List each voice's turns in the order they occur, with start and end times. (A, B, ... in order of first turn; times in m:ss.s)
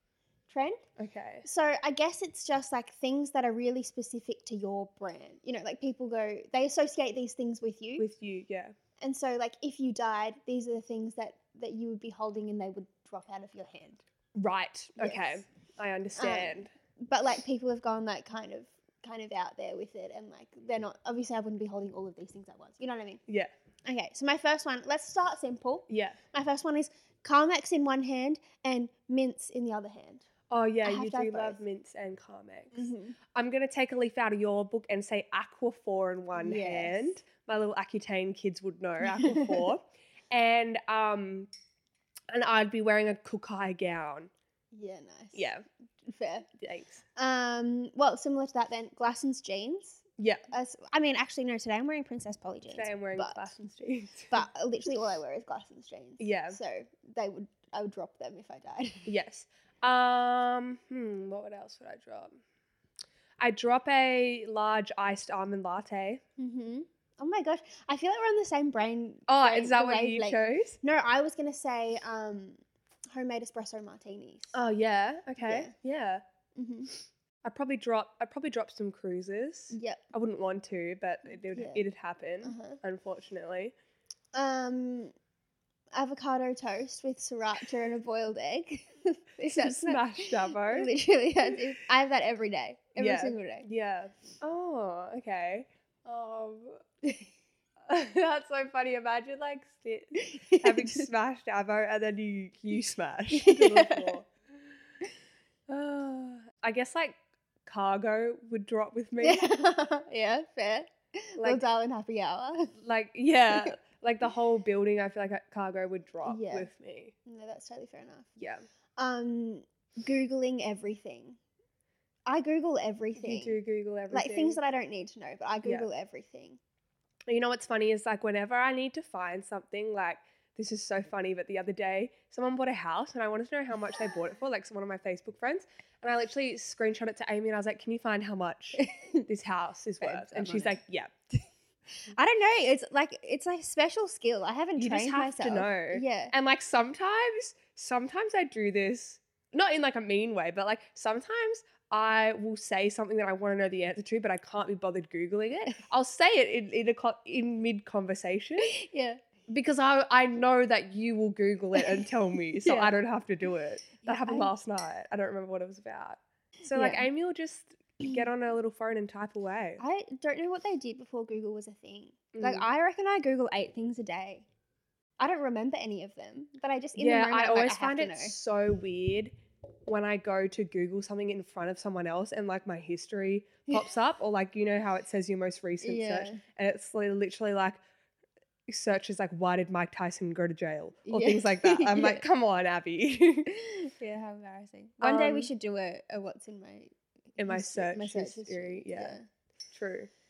0:00.5-0:00.8 A
0:01.0-0:01.5 B
0:01.4-0:08.1 A
0:08.0-0:08.8 B
0:09.0-0:14.0 A
0:14.4-0:16.7 B
0:15.0-0:15.4 A
0:16.2-0:23.2 A
0:23.3-0:23.5 B
0:23.8-0:30.2 A
0:25.9-0:26.2 B
0:30.5-0:41.5 B
0:30.8-0:31.6 A
0:32.7-0:33.2 A
0:36.4-0:37.2 A
0:42.3-0:44.3 B
0:44.7-0:45.5 A
0:45.3-0:45.6 B
0:46.0-0:46.5 A
0:46.6-0:47.0 B
0:47.2-0:53.6 A
0:50.2-0:50.5 B
0:52.7-0:54.4 B
0:54.3-0:59.1 A
0:56.2-0:56.6 B
0:59.1-1:02.4 B
1:03.4-1:06.2 B
1:06.4-1:12.6 A
1:09.3-1:10.8 B
1:13.1-1:14.6 A
1:14.5-1:16.2 B
1:15.4-1:15.7 A
1:16.6-1:16.9 A
1:17.4-1:23.7 B
1:19.7-1:20.0 A
1:21.5-1:21.9 A
1:22.4-1:22.8 A
1:24.3-1:25.1 A
1:25.9-1:33.7 A
1:29.5-1:30.9 B
1:33.0-1:36.8 B
1:37.0-1:37.3 A
1:37.9-1:44.3 B
1:40.2-1:41.0 A
1:43.3-1:44.1 A
1:45.7-1:49.5 B
1:49.2-1:52.8 A
1:52.8-1:57.1 B
1:56.2-1:56.7 A
1:57.3-1:58.3 A
1:58.4-1:58.6 B
1:59.0-2:01.4 A
2:02.3-2:03.6 A
2:03.2-2:04.6 B
2:04.1-2:06.6 A
2:07.3-2:21.2 B
2:18.8-2:19.3 A
2:20.0-2:20.8 A
2:22.0-2:26.3 A
2:24.8-2:38.8 B
2:38.6-2:39.2 A
2:39.5-2:49.8 B
2:41.8-2:42.0 A
2:42.6-2:43.0 A
2:44.0-2:44.5 A
2:46.7-2:47.1 A
2:49.8-2:54.5 A
2:52.3-2:52.7 B
2:55.2-2:58.4 A
2:57.0-2:59.4 B
2:59.9-3:07.8 B
3:05.8-3:06.4 A
3:08.7-3:13.5 B
3:11.0-3:12.2 A
3:13.5-3:19.2 A
3:15.0-3:15.5 B
3:17.4-3:19.2 B
3:19.7-3:20.1 B